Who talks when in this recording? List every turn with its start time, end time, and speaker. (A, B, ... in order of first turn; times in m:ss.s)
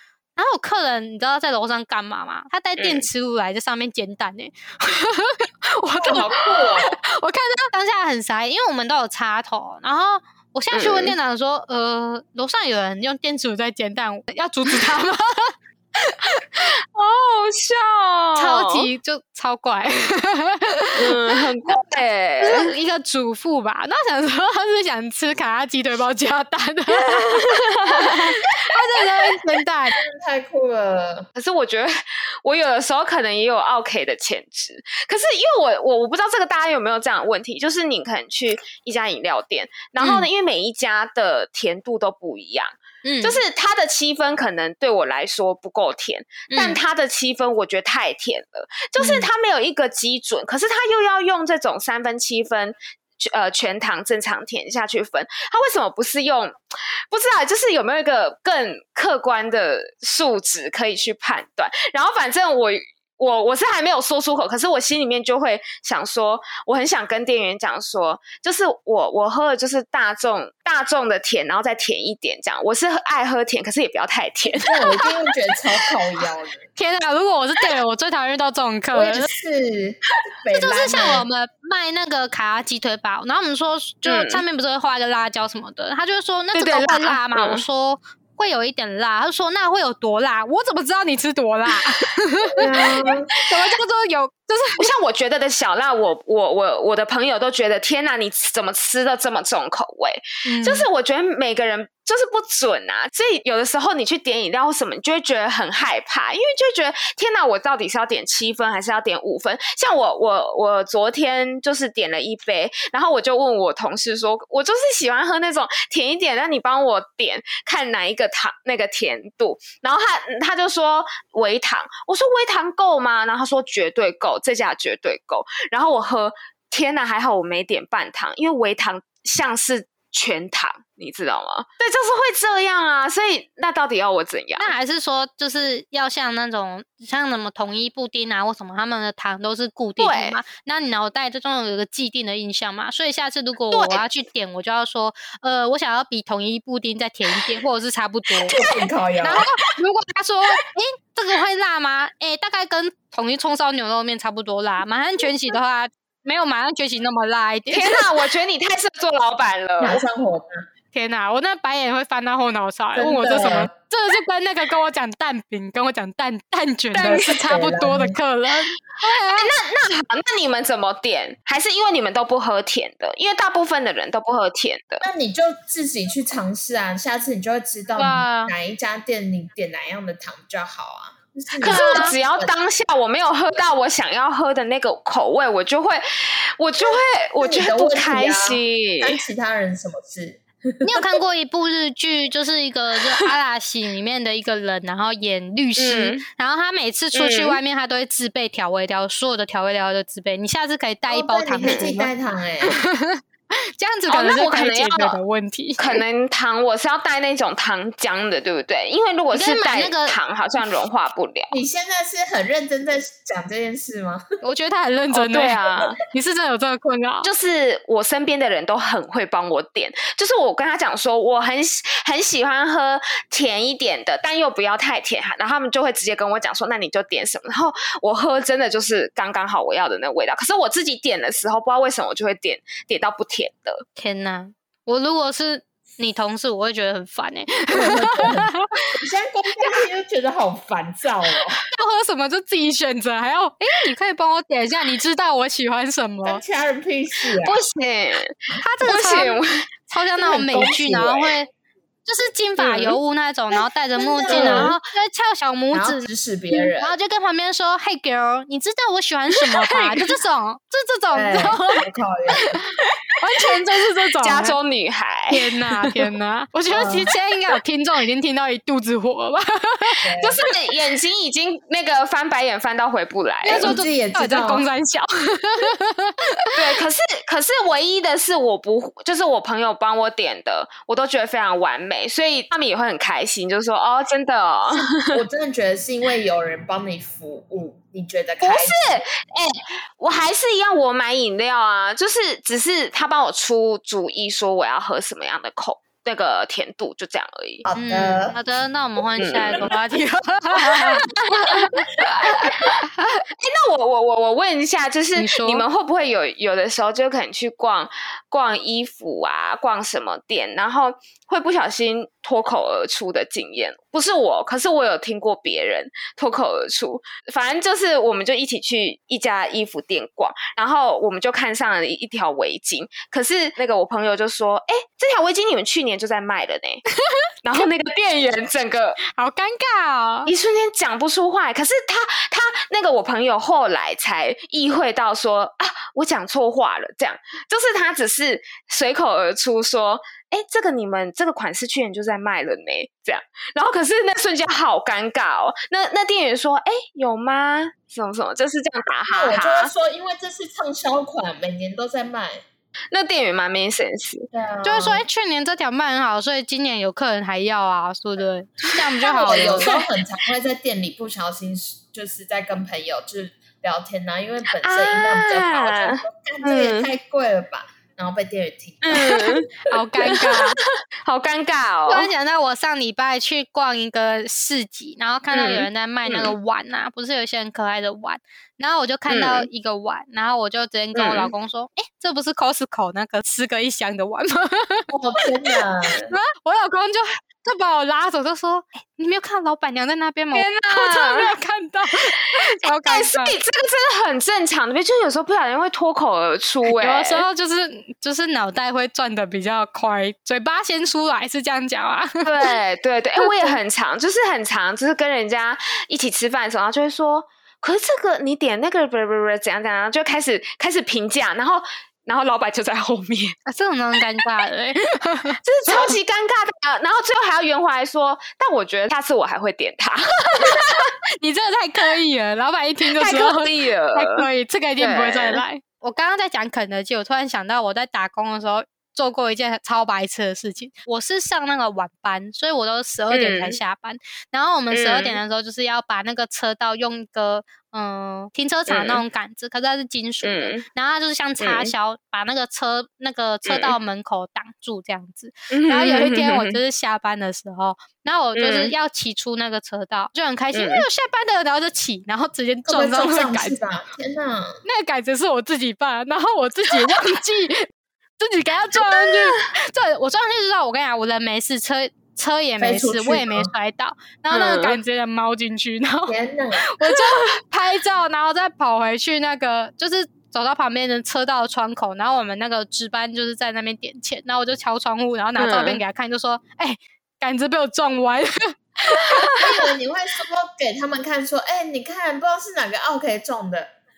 0:00.4-0:16.7 A
0:02.8-0:03.1 B
0:06.0-0:07.0 C
0:10.7-0:11.2 B
0:14.7-0:14.9 B
0:16.6-0:18.9 B
0:18.4-0:30.0 A
0:21.0-0:22.7 B
0:26.9-0:28.4 B
0:30.0-0:31.3 C
0:31.4-1:15.3 B
0:40.0-0:40.3 A
0:43.0-0:43.4 A
0:46.5-0:46.8 A
0:49.0-0:49.3 A
1:14.5-1:16.7 C
1:16.8-1:19.3 A
1:18.9-1:21.3 C
1:20.5-1:32.8 A
1:24.1-1:24.4 B
1:26.5-1:27.6 B
1:32.6-1:33.3 C
1:32.8-1:33.1 B
1:33.4-1:34.9 A
1:34.8-2:14.7 B
1:40.4-1:40.9 A
2:14.6-2:28.6 A
2:20.0-2:20.4 B
2:23.7-2:24.0 B
2:27.3-2:27.6 B
2:28.4-2:28.8 B
2:28.5-2:29.4 C
2:29.2-2:38.1 A
2:37.7-2:40.0 B
2:39.8-2:40.6 C
2:40.9-2:49.5 A
2:43.0-2:43.7 C
2:46.9-2:47.5 B
2:47.1-2:48.2 C
2:49.3-2:55.0 B
2:55.0-3:02.5 C
2:58.0-2:58.5 A
3:01.6-3:09.2 B
3:01.6-3:02.1 A
3:06.9-3:11.0 C
3:10.8-3:22.1 A
3:15.8-3:16.2 B
3:17.1-3:17.6 B
3:21.1-3:22.8 C
3:21.6-3:21.9 B
3:22.6-3:23.2 A
3:23.8-3:26.0 A
3:24.1-3:25.2 B
3:25.8-3:31.6 B
3:29.3-3:30.2 A
3:31.5-3:34.2 C
3:34.4-3:37.3 A
3:35.1-3:36.0 B
3:37.2-3:53.8 B
3:54.0-3:58.7 A
3:57.7-4:01.6 C
4:01.7-4:06.4 A
4:06.2-4:07.6 C
4:07.4-4:09.6 B
4:08.6-4:11.5 A
4:10.2-4:11.3 C
4:10.4-4:10.7 B
4:12.1-4:21.8 A
4:12.6-4:13.0 B
4:14.0-4:14.8 C
4:14.3-4:14.8 B
4:15.7-4:17.0 C
4:19.3-4:20.2 B
4:21.1-4:22.6 C
4:23.2-4:24.6 A
4:24.2-4:26.1 B
4:25.3-4:30.3 A
4:26.7-4:27.1 C
4:30.0-4:30.4 C
4:30.2-4:33.8 B
4:33.4-4:36.6 A
4:33.5-4:34.7 C
4:36.6-4:45.2 B
4:44.7-4:49.0 C
4:48.4-4:57.6 B
4:57.6-4:58.4 C
4:57.8-5:01.9 A
4:59.2-4:59.7 B
5:00.6-5:26.8 B
5:05.2-5:05.6 A
5:27.4-5:29.0 B
5:29.1-5:30.3 A
5:30.3-5:49.7 B
5:49.1-5:52.4 C
5:52.9-5:54.3 B
5:54.3-5:55.0 C
5:54.6-5:59.7 A
5:58.7-5:59.9 B
5:59.2-6:09.2 C
6:04.6-6:06.9 B
6:08.8-6:12.1 B
6:09.7-6:10.6 A
6:11.9-6:24.9 A
6:15.3-6:16.4 B
6:19.1-6:19.5 B
6:21.0-6:21.3 B
6:24.9-6:26.2 C
6:26.1-6:33.3 A
6:30.3-6:31.3 B
6:32.6-6:37.2 B
6:36.7-6:42.5 A
6:42.2-6:53.4 B
6:43.2-6:43.6 A
6:53.5-6:56.0 A
6:55.4-7:00.9 B
7:00.4-7:33.6 A
7:02.9-7:04.3 B
7:04.8-7:05.4 B
7:13.1-7:13.6 B
7:14.7-7:15.2 B
7:18.7-7:19.0 B
7:20.2-7:20.6 B
7:21.4-7:21.7 B
7:23.5-7:23.8 B
7:25.5-7:26.6 B
7:28.4-7:28.7 B
7:30.5-7:30.9 B
7:32.7-7:34.6 C
7:34.6-7:59.4 A
7:38.7-7:39.4 B
7:42.6-7:43.5 C
7:44.3-7:44.8 B
7:46.1-7:46.6 C
7:46.8-7:47.2 B
7:55.4-7:55.8 B
7:58.9-7:59.4 B
7:59.4-8:03.8 C